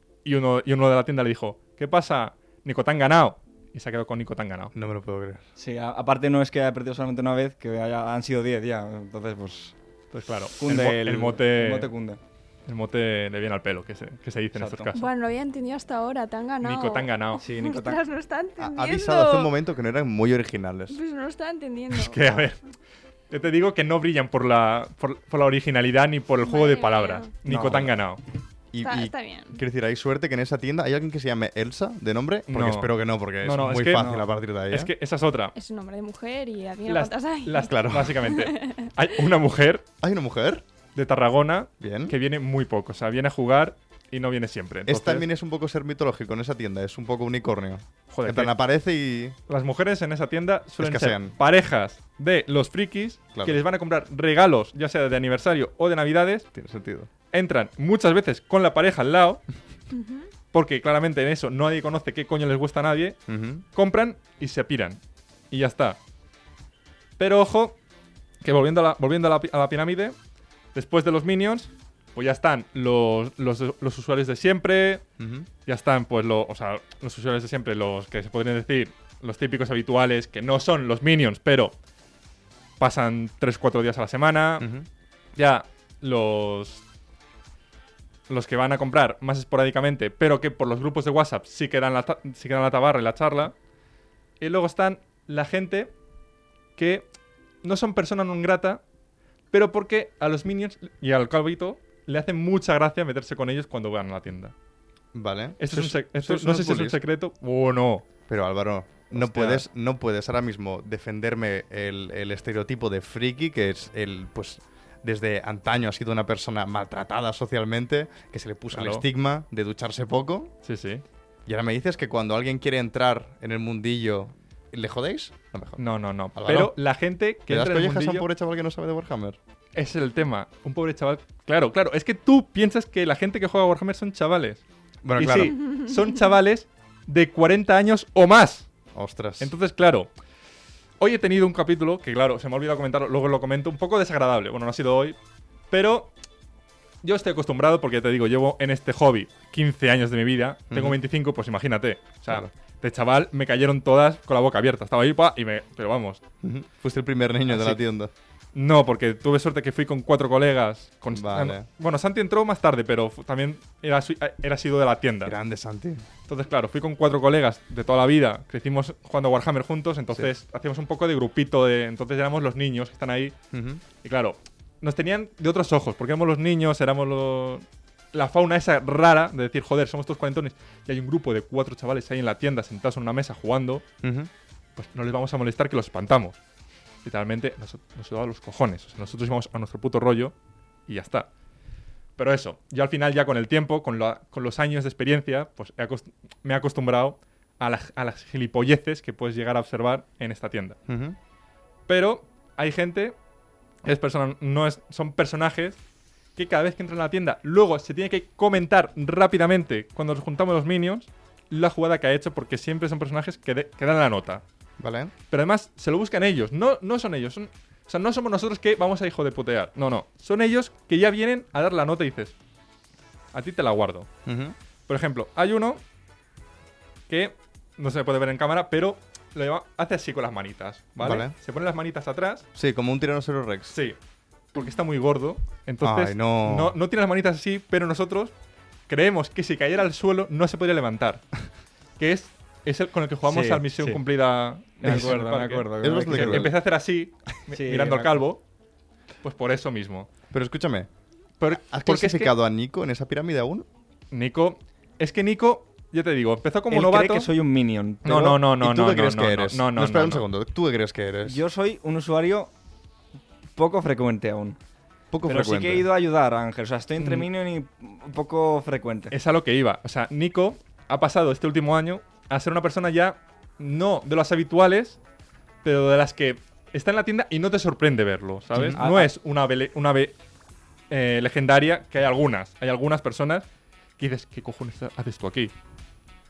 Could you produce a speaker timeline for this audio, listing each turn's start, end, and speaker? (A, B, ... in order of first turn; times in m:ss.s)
0:00.2-0:04.7 A
0:04.7-0:05.4 B
0:05.6-0:09.7 C
0:10.1-0:11.9 A
0:10.6-0:12.2 C
0:12.7-0:15.0 A
0:14.5-0:15.0 C
0:14.9-0:19.5 D
0:16.6-0:17.4 A
0:17.4-0:18.0 C
0:18.6-0:21.0 B
0:20.9-0:22.4 D
0:21.9-0:22.6 A
0:23.3-0:28.2 A
0:26.4-0:27.3 D
0:27.5-0:27.9 C
0:28.7-0:34.9 B
0:28.8-0:29.6 D
0:32.5-0:34.1 A
0:33.9-0:34.3 C
0:34.7-0:35.5 A
0:35.5-0:38.9 D
0:36.8-0:39.8 A
0:37.6-0:38.3 B
0:40.0-0:40.6 B
0:40.9-0:45.2 A
0:41.8-0:42.2 B
0:44.8-0:49.4 B
0:48.1-0:48.6 A
0:49.5-0:56.5 A
0:50.8-0:51.3 B
0:53.3-0:53.6 B
0:56.5-0:57.1 B
0:57.3-0:59.4 A
0:59.9-1:00.3 D
1:00.5-1:03.2 A
1:03.3-1:03.6 B
1:03.7-1:05.0 A
1:05.5-1:06.0 A
1:07.2-1:07.8 A
1:08.4-1:10.2 A
1:10.7-1:15.0 A
1:15.2-1:15.5 B
1:15.6-1:21.7 A
1:22.8-1:24.7 A
1:24.6-1:24.9 B
1:25.4-1:26.8 A
1:28.3-1:33.5 A
1:34.4-1:35.9 A
1:36.8-1:37.1 A
1:37.6-1:38.8 A
1:39.5-1:44.5 A
1:45.1-1:47.0 B
1:45.6-1:48.0 A
1:48.3-2:00.5 B
1:49.1-1:49.6 A
1:58.7-1:59.0 A
2:00.6-2:01.0 A
2:01.4-2:05.8 B
2:05.8-2:08.3 A
2:06.3-2:06.8 B
2:07.5-2:09.4 B
2:09.7-2:14.6 A
2:15.0-2:15.6 B
2:15.2-2:18.7 A
2:18.9-2:19.5 B
2:19.4-2:20.1 A
2:21.0-2:25.2 A
2:25.7-2:26.1 A
2:27.0-2:36.2 A
2:30.7-2:31.0 B
2:36.4-2:38.1 B
2:37.5-2:37.8 A
2:38.5-2:45.3 A
2:41.1-2:41.6 B
2:45.2-2:46.0 B
2:46.3-2:53.4 A
2:53.5-2:53.8 B
2:54.0-3:03.8 A
3:04.0-3:04.3 B
3:04.8-3:06.4 A
3:07.0-3:10.3 A
3:10.9-3:11.3 A
3:12.2-3:20.8 A
3:20.9-3:21.2 B
3:21.9-3:23.2 A
3:23.8-3:25.8 A
3:26.4-3:34.4 A
3:34.8-3:35.1 B
3:35.3-3:42.3 A
3:43.3-3:44.1 A
3:44.2-3:44.5 B
3:44.9-3:45.8 A
3:47.1-3:52.4 A
3:51.0-3:51.3 B
3:52.5-3:53.7 B
3:53.7-3:54.0 A
3:54.5-3:58.3 A
3:55.8-3:56.8 B
3:58.9-4:01.2 A
4:02.0-4:08.4 A
4:03.2-4:04.0 C
4:04.8-4:06.5 C
4:04.8-4:05.2 B
4:05.8-4:06.5 B
4:07.5-4:08.2 C
4:09.2-4:10.1 A
4:10.3-4:10.9 B
4:11.4-4:12.3 A
4:11.5-4:13.6 B
4:14.1-4:17.3 A
4:16.7-4:18.4 C
4:18.0-4:20.2 A
4:18.5-4:21.4 B
4:21.2-4:22.5 C
4:23.6-4:24.6 C
4:25.1-4:25.9 B
4:25.2-4:29.1 C
4:27.0-4:27.3 A
4:29.1-4:35.0 A
4:35.6-4:40.2 A
4:38.5-4:38.8 B
4:38.7-4:39.1 C
4:40.9-4:43.4 A
4:44.0-4:45.5 A